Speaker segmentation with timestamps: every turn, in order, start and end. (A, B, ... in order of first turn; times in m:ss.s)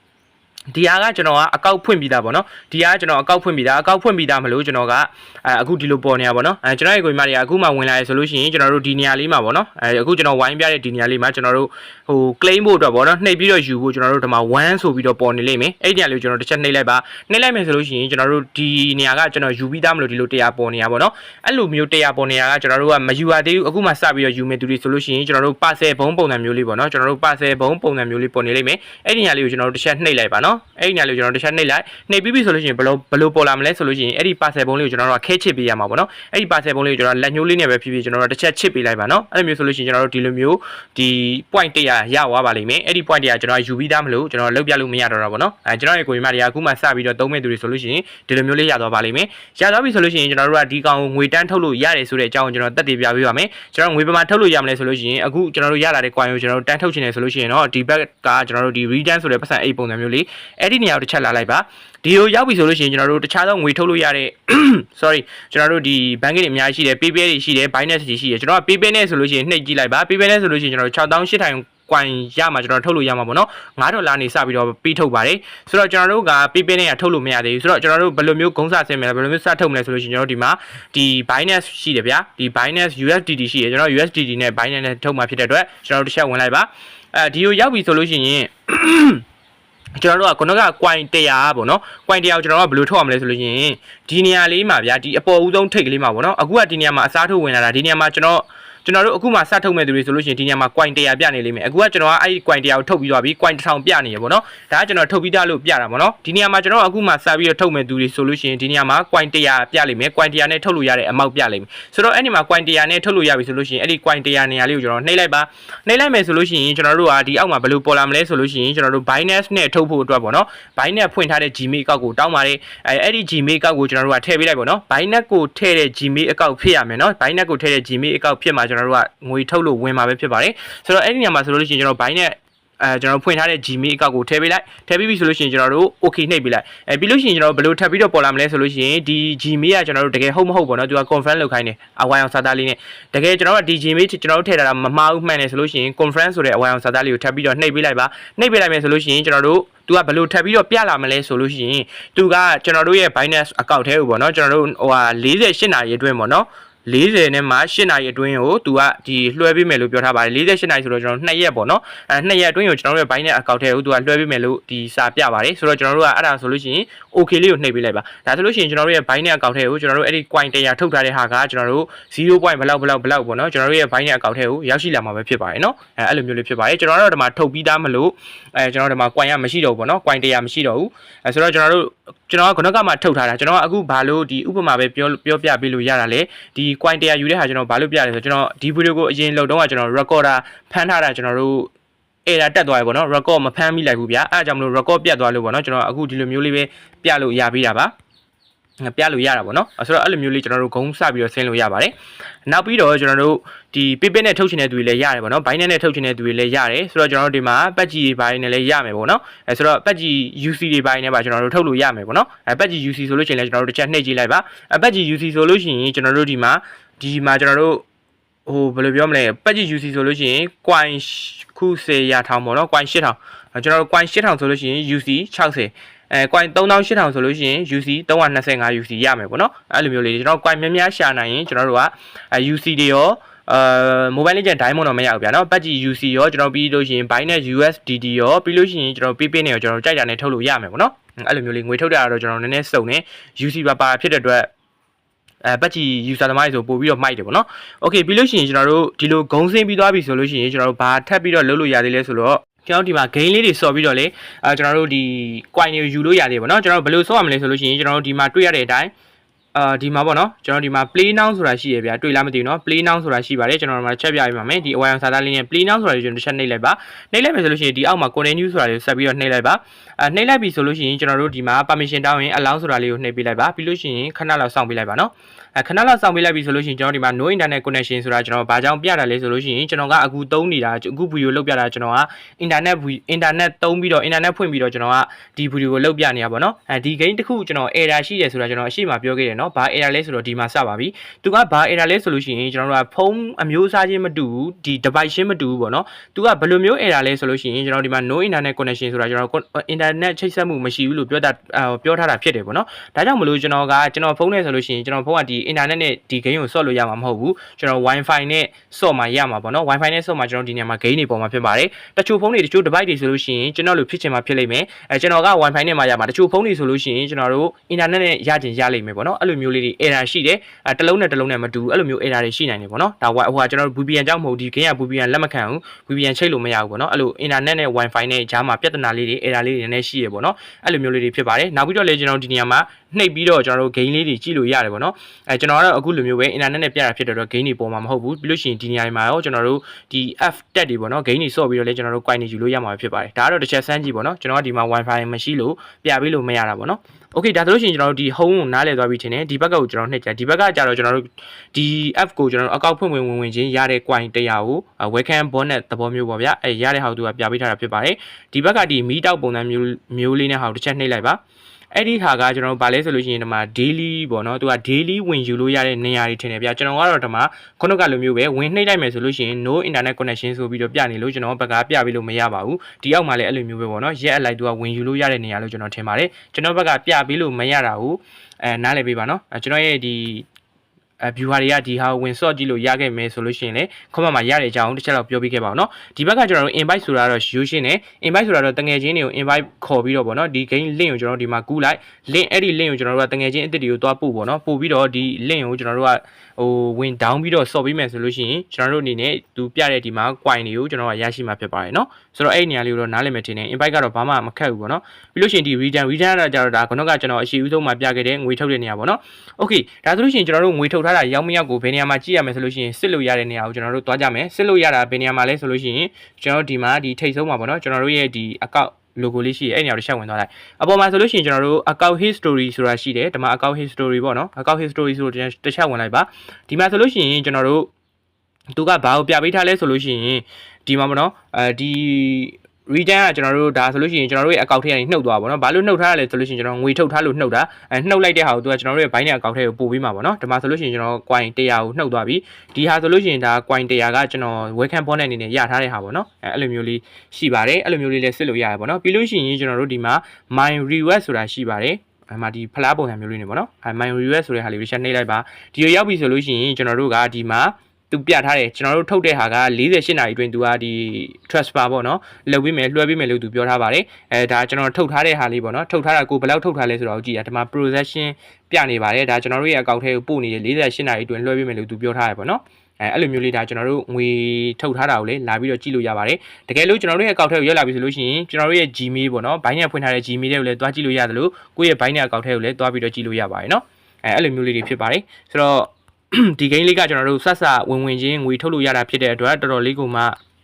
0:00.7-1:29.2 A
1:30.0-3:11.7 A
3:12.3-3:17.9 A
3:18.8-3:21.9 A
3:22.5-3:37.8 A
3:38.5-4:04.5 A
4:05.4-4:18.9 A
4:19.5-6:01.2 A
6:01.7-6:20.3 A
6:21.0-7:07.7 A
7:08.5-8:10.2 A